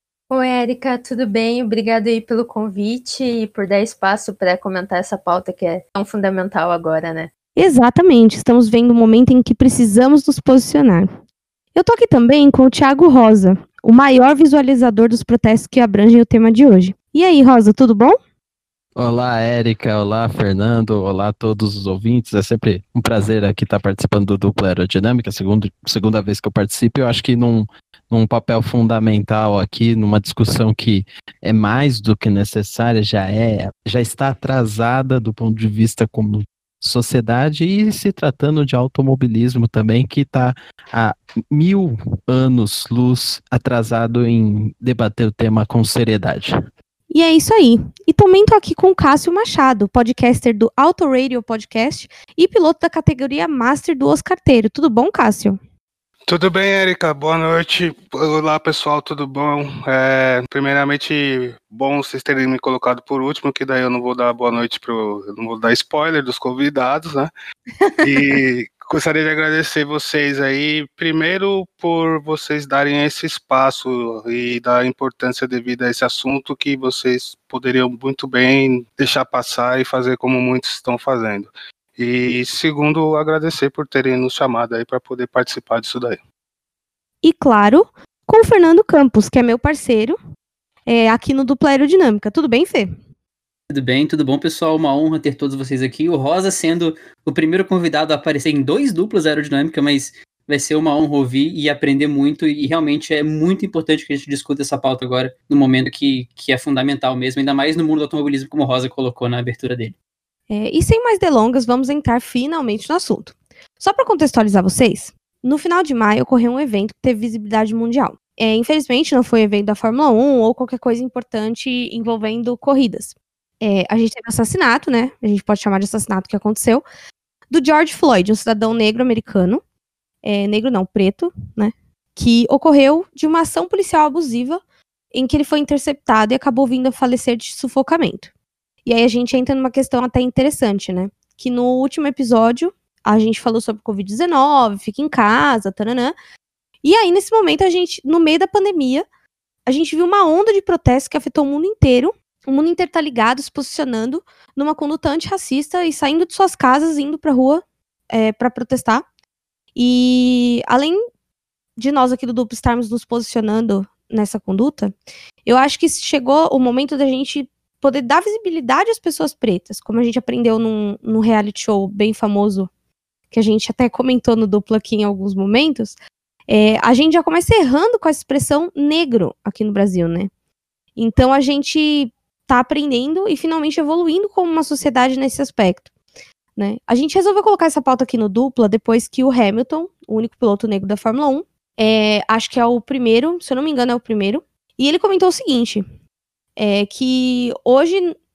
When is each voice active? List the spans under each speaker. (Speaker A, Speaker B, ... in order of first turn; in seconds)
Speaker A: 0.3-7.3
Speaker B: 7.6-11.1, 11.8-18.2, 47.1-55.6, 67.8-68.4, 87.2-90.2, 90.9-92.9, 110.5-126.8, 127.5-129.6, 130.2-134.6, 135.1-138.3, 138.8-146.1, 146.8-149.1, 149.7-159.1, 159.8-161.0, 161.8-172.7, 173.3-176.0, 176.5-180.3, 181.0-185.9, 186.6-195.8, 196.6-198.2
Speaker C: 19.0-46.5
Speaker D: 56.3-67.3, 68.0-86.2
Speaker E: 93.7-110.0